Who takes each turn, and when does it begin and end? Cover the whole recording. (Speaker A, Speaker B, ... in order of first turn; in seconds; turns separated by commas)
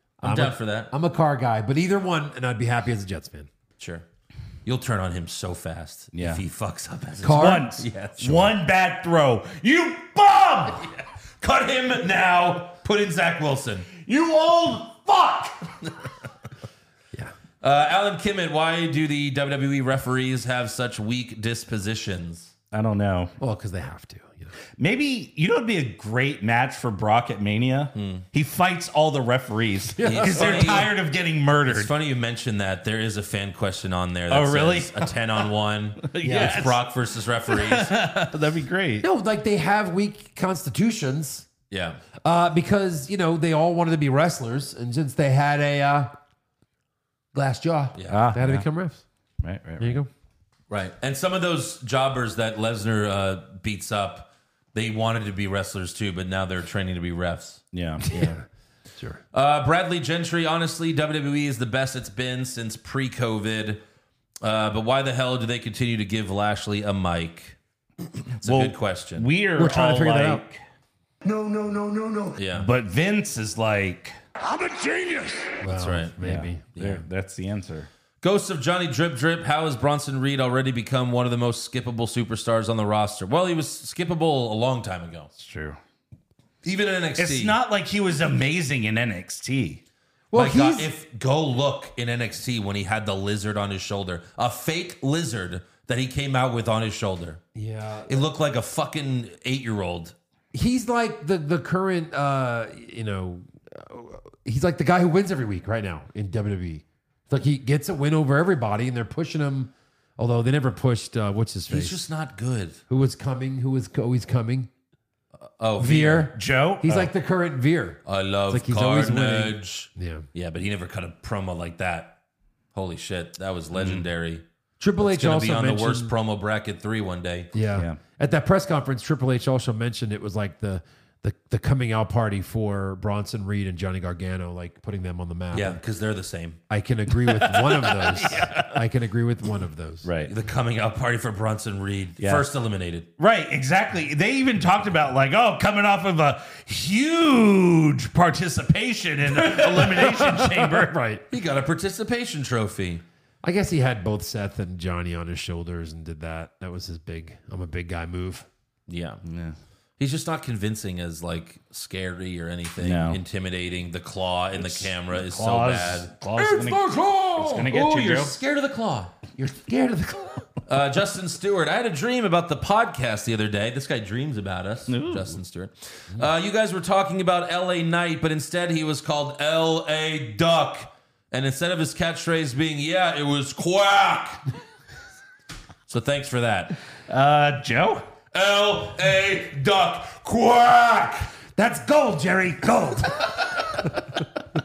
Speaker A: 0.2-0.9, Speaker B: 0.2-3.5, Speaker A: 3.8-4.1, Speaker A: 4.7-8.6, Speaker C: 6.1-6.4, Speaker B: 7.2-7.7, Speaker C: 7.2-10.8, Speaker A: 10.8-14.1, Speaker C: 14.0-15.5, Speaker A: 15.2-15.9, Speaker A: 17.6-22.5, Speaker C: 22.7-23.3, Speaker B: 23.4-24.5, Speaker C: 24.8-31.9, Speaker A: 27.9-28.3, Speaker B: 30.0-30.9, Speaker A: 30.0-31.0, Speaker A: 31.7-38.0, Speaker C: 34.3-35.1, Speaker C: 36.1-36.8, Speaker B: 36.2-36.8, Speaker C: 37.5-39.1, Speaker B: 39.0-41.5, Speaker A: 41.7-42.0, Speaker B: 42.2-46.1, Speaker B: 47.3-49.0, Speaker A: 48.0-48.3, Speaker C: 48.1-48.7, Speaker C: 49.4-50.0, Speaker B: 49.8-50.1, Speaker A: 50.7-58.3, Speaker C: 57.7-58.0, Speaker B: 58.1-58.5, Speaker A: 59.3-63.8, Speaker A: 64.4-67.6, Speaker A: 68.3-69.3, Speaker C: 68.4-70.6, Speaker B: 69.6-70.4, Speaker D: 71.2-72.3, Speaker A: 72.3-72.7, Speaker C: 72.5-74.2, Speaker D: 74.5-75.5, Speaker B: 75.6-76.7, Speaker A: 75.6-76.2, Speaker C: 76.2-77.9, Speaker A: 76.8-77.0, Speaker A: 78.2-85.3, Speaker C: 85.4-85.8, Speaker A: 86.6-87.6, Speaker C: 87.2-89.8, Speaker B: 90.3-90.9, Speaker A: 90.3-97.4, Speaker B: 97.5-98.3, Speaker A: 98.1-100.2, Speaker B: 100.5-112.0, Speaker A: 111.7-112.8, Speaker B: 112.9-114.7, Speaker A: 115.4-116.3, Speaker B: 115.8-120.3, Speaker C: 116.3-117.1, Speaker A: 118.0-122.2, Speaker A: 122.7-124.5, Speaker C: 123.7-124.0, Speaker B: 124.8-126.1, Speaker A: 125.0-127.5, Speaker B: 127.5-135.8, Speaker A: 135.5-136.6, Speaker B: 136.7-140.1, Speaker C: 137.3-138.7, Speaker A: 137.8-138.7, Speaker C: 140.0-140.3, Speaker A: 140.2-143.1, Speaker C: 142.2-142.5, Speaker C: 143.2-150.9, Speaker B: 149.7-151.2, Speaker A: 151.3-153.0, Speaker B: 153.4-158.5, Speaker A: 158.9-159.2, Speaker C: 159.3-159.6, Speaker A: 160.0-166.8, Speaker C: 162.8-163.2, Speaker C: 164.6-168.3, Speaker B: 166.4-167.3, Speaker A: 167.3-169.2, Speaker B: 169.4-170.5, Speaker A: 170.7-184.4, Speaker C: 174.9-175.4, Speaker A: 185.9-186.8, Speaker C: 187.1-188.1, Speaker A: 188.3-191.3, Speaker B: 191.6-193.4, Speaker A: 193.3-193.6